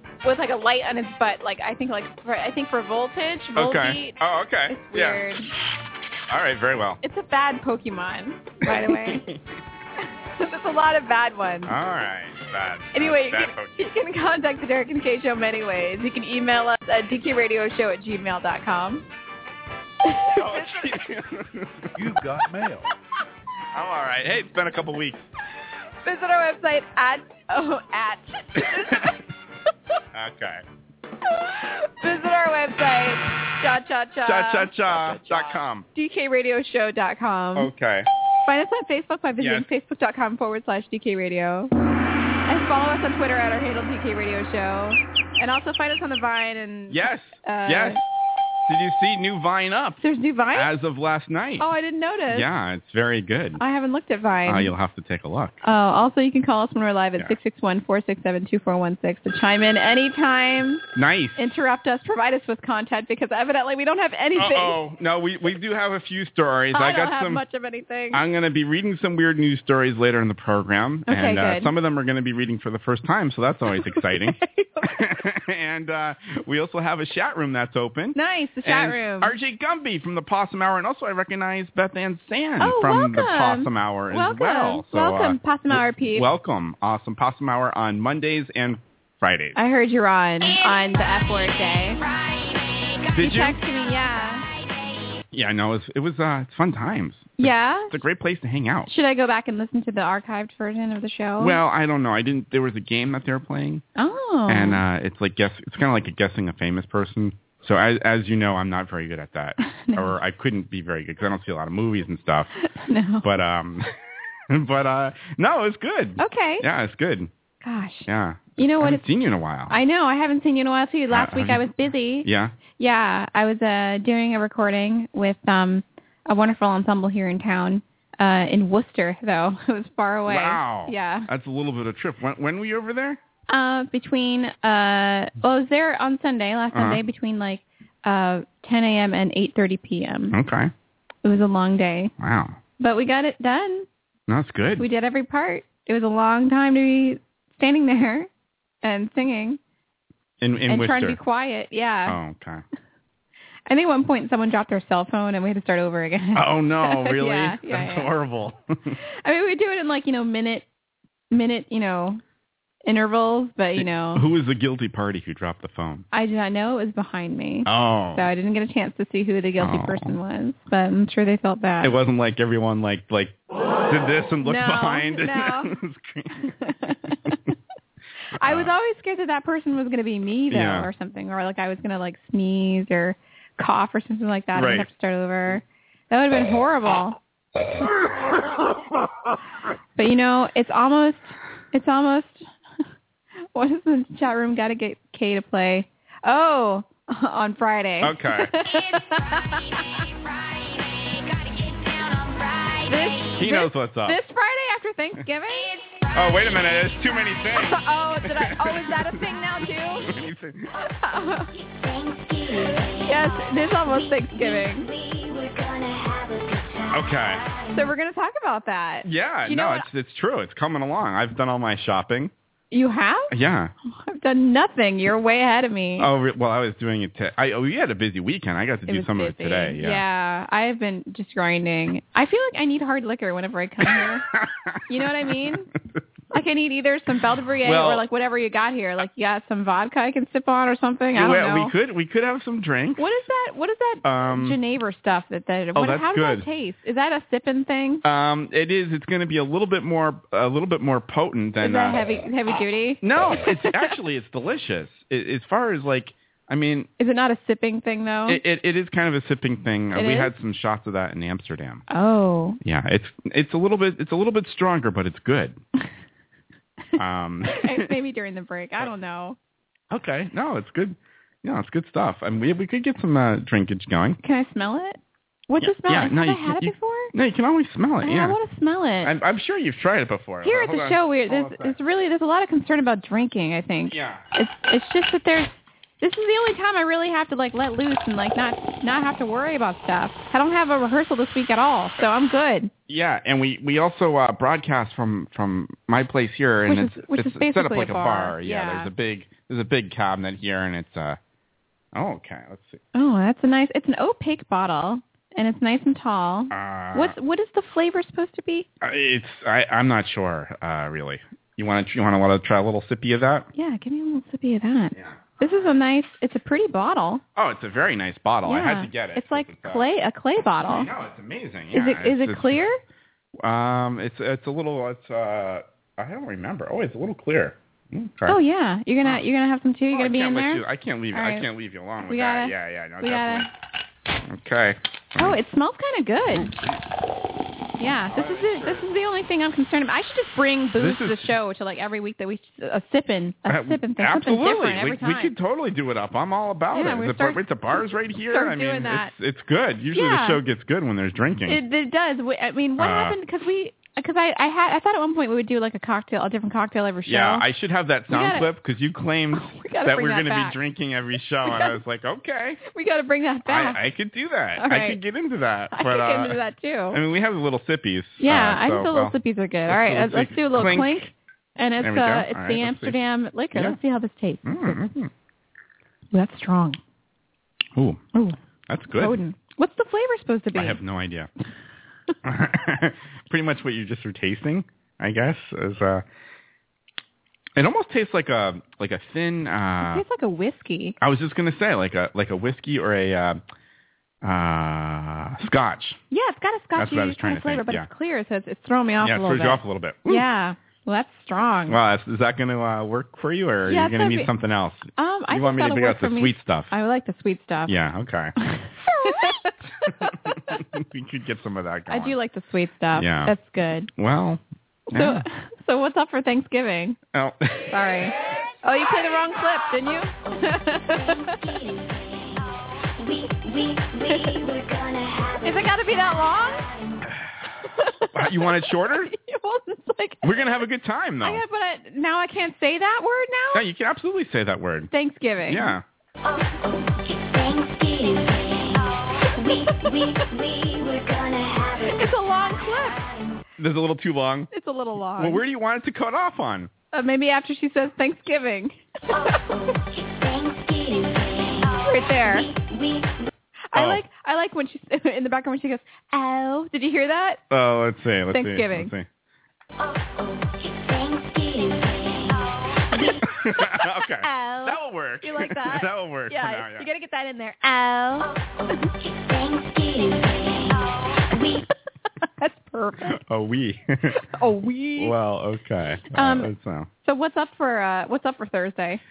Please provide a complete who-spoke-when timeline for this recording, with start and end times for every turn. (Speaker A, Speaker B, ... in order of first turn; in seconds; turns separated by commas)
Speaker A: 0.2-5.5, Speaker B: 3.5-5.2, Speaker B: 6.3-7.0, Speaker A: 7.0-9.2, Speaker B: 8.6-9.4, Speaker A: 10.3-11.7, Speaker B: 11.6-13.9, Speaker A: 12.9-19.1, Speaker A: 20.0-20.9, Speaker B: 20.3-22.2, Speaker B: 23.7-25.3, Speaker A: 26.0-29.2, Speaker B: 30.1-30.6, Speaker A: 31.3-34.7, Speaker B: 34.2-35.9, Speaker A: 35.9-37.7, Speaker B: 37.5-38.1, Speaker A: 38.5-41.7, Speaker B: 39.4-39.7, Speaker A: 42.5-48.0, Speaker B: 46.9-48.0, Speaker B: 48.6-50.0, Speaker A: 50.0-50.7, Speaker B: 50.5-51.7, Speaker A: 51.6-52.5, Speaker B: 52.3-53.6, Speaker A: 53.6-54.7, Speaker B: 54.5-55.6, Speaker A: 55.6-60.8, Speaker B: 60.9-61.5, Speaker A: 61.4-64.8, Speaker B: 64.3-67.4, Speaker A: 66.7-68.2, Speaker B: 68.1-89.5, Speaker A: 71.1-71.7, Speaker A: 74.0-75.0, Speaker A: 78.1-79.3, Speaker A: 82.6-86.2, Speaker A: 89.5-92.0, Speaker C: 90.4-93.1, Speaker A: 93.1-94.5, Speaker B: 93.1-93.6, Speaker C: 93.7-94.8, Speaker B: 95.3-98.9, Speaker A: 97.4-97.9, Speaker A: 98.9-101.6, Speaker B: 101.4-103.8, Speaker A: 104.0-104.8, Speaker B: 104.5-112.5, Speaker A: 109.7-110.2, Speaker A: 112.7-113.2, Speaker B: 113.2-113.9, Speaker B: 114.5-117.3, Speaker A: 116.2-116.6, Speaker A: 117.6-119.0, Speaker B: 118.1-119.8, Speaker A: 119.7-131.3, Speaker B: 121.1-121.7, Speaker B: 122.2-122.6, Speaker B: 130.2-133.2, Speaker A: 133.5-140.3, Speaker B: 136.7-137.0, Speaker B: 140.3-140.7, Speaker A: 141.2-142.1, Speaker B: 142.2-142.6, Speaker A: 142.8-143.9, Speaker B: 144.3-144.9, Speaker A: 144.8-148.3, Speaker A: 148.8-149.6, Speaker B: 150.4-151.2, Speaker A: 150.7-152.2, Speaker B: 152.1-152.6, Speaker A: 153.7-158.1, Speaker B: 156.3-159.0, Speaker A: 159.2-160.7, Speaker A: 161.3-162.2, Speaker A: 162.8-164.2, Speaker B: 163.8-166.1, Speaker A: 166.1-171.9, Speaker B: 167.7-168.3, Speaker B: 169.6-170.2, Speaker B: 171.8-173.3, Speaker B: 173.9-177.5, Speaker A: 174.4-175.7, Speaker A: 176.4-177.3, Speaker A: 178.3-187.2, Speaker B: 178.4-178.7, Speaker B: 180.5-180.9, Speaker B: 184.5-184.9, Speaker A: 190.0-192.5, Speaker A: 193.5-200.0, Speaker B: 198.0-198.5, Speaker C: 198.6-203.3, Speaker A: 202.9-205.8, Speaker B: 203.4-204.2, Speaker C: 205.5-207.3, Speaker B: 206.1-210.7, Speaker A: 207.5-210.1, Speaker A: 210.8-211.5, Speaker C: 211.1-217.9, Speaker A: 213.0-214.9, Speaker B: 216.9-217.4, Speaker A: 217.7-219.9, Speaker B: 219.0-222.3, Speaker A: 222.7-223.3, Speaker B: 223.3-223.7, Speaker A: 224.1-226.1, Speaker B: 226.0-230.0, Speaker A: 228.9-234.2, Speaker B: 233.8-236.0, Speaker A: 234.9-235.7, Speaker A: 236.3-241.7, Speaker B: 237.6-238.0, Speaker B: 241.1-243.1, Speaker A: 243.0-248.0, Speaker B: 244.0-244.6, Speaker B: 245.7-246.5, Speaker B: 248.0-252.0, Speaker A: 251.6-253.9, Speaker B: 253.0-256.9, Speaker A: 257.0-258.4, Speaker B: 258.3-261.8, Speaker A: 259.9-260.3, Speaker A: 261.9-262.6, Speaker B: 262.6-265.6, Speaker B: 267.0-267.9, Speaker A: 267.5-269.4, Speaker B: 269.9-274.2, Speaker A: 274.2-275.0, Speaker A: 275.5-277.1, Speaker B: 275.6-278.4, Speaker A: 278.0-279.1, Speaker B: 279.0-281.8, Speaker A: 280.4-292.7, Speaker B: 283.9-284.2, Speaker B: 292.9-301.2, Speaker A: 296.7-298.9, Speaker B: 301.9-302.8, Speaker A: 302.9-308.7, Speaker B: 306.5-307.1, Speaker B: 308.8-313.5, Speaker A: 313.5-317.2, Speaker B: 314.9-315.4, Speaker B: 317.4-319.9, Speaker A: 318.4-320.9, Speaker B: 320.7-322.6, Speaker A: 321.7-322.8, Speaker B: 323.4-328.4, Speaker A: 328.3-331.5, Speaker B: 329.9-333.5, Speaker A: 332.1-333.5, Speaker B: 334.2-335.4, Speaker A: 335.2-336.5, Speaker A: 337.8-345.3, Speaker B: 338.1-338.9, Speaker B: 340.8-341.3, Speaker B: 343.4-351.6, Speaker A: 346.7-347.5, Speaker A: 348.3-349.1, Speaker A: 349.9-350.4, Speaker A: 351.5-357.4, Speaker B: 352.8-353.2, Speaker B: 357.1-362.6, Speaker A: 358.1-358.5, Speaker A: 359.3-360.6, Speaker A: 361.4-361.8, Speaker A: 362.7-363.8, Speaker B: 363.5-366.4, Speaker A: 364.6-365.0, Speaker A: 365.7-367.0, Speaker B: 366.9-369.1, Speaker A: 368.2-374.8, Speaker B: 369.7-371.1, Speaker B: 371.8-373.0, Speaker B: 374.4-375.1, Speaker A: 376.1-376.8, Speaker B: 377.7-378.0, Speaker B: 378.7-379.2, Speaker A: 378.9-380.8, Speaker B: 380.5-381.3, Speaker B: 382.2-386.0, Speaker B: 387.6-390.0, Speaker A: 389.8-391.0, Speaker B: 391.0-393.4, Speaker B: 394.2-396.0, Speaker A: 396.1-401.8, Speaker B: 396.8-397.9, Speaker B: 399.0-400.2, Speaker B: 401.7-406.7, Speaker A: 403.6-404.3, Speaker A: 405.0-407.7, Speaker B: 407.7-408.3, Speaker A: 408.4-410.6, Speaker B: 409.9-412.1, Speaker A: 411.9-413.9, Speaker B: 412.9-413.3, Speaker B: 413.9-415.2, Speaker A: 414.9-417.0, Speaker B: 417.1-417.7, Speaker A: 417.7-421.3, Speaker C: 418.6-427.1, Speaker A: 424.1-424.4, Speaker A: 425.4-426.7, Speaker B: 427.1-427.4, Speaker A: 427.7-430.3, Speaker B: 428.1-429.1, Speaker B: 430.2-431.4, Speaker A: 431.2-433.6, Speaker B: 433.5-434.9, Speaker A: 434.9-435.7, Speaker B: 435.4-435.8, Speaker C: 436.2-443.4, Speaker A: 439.5-439.8, Speaker A: 441.9-443.0, Speaker B: 443.6-444.5, Speaker A: 444.5-445.4, Speaker B: 445.2-446.7, Speaker A: 446.9-448.8, Speaker C: 449.1-453.3, Speaker A: 451.9-452.5, Speaker A: 453.7-457.4, Speaker B: 453.7-454.0, Speaker B: 457.5-459.1, Speaker A: 458.3-458.9, Speaker C: 459.8-463.2, Speaker A: 462.9-468.3, Speaker B: 463.2-466.9, Speaker C: 468.2-471.7, Speaker A: 472.4-473.2, Speaker B: 473.2-474.2, Speaker A: 474.2-475.1, Speaker B: 475.0-476.9, Speaker A: 476.1-476.5, Speaker A: 477.0-479.0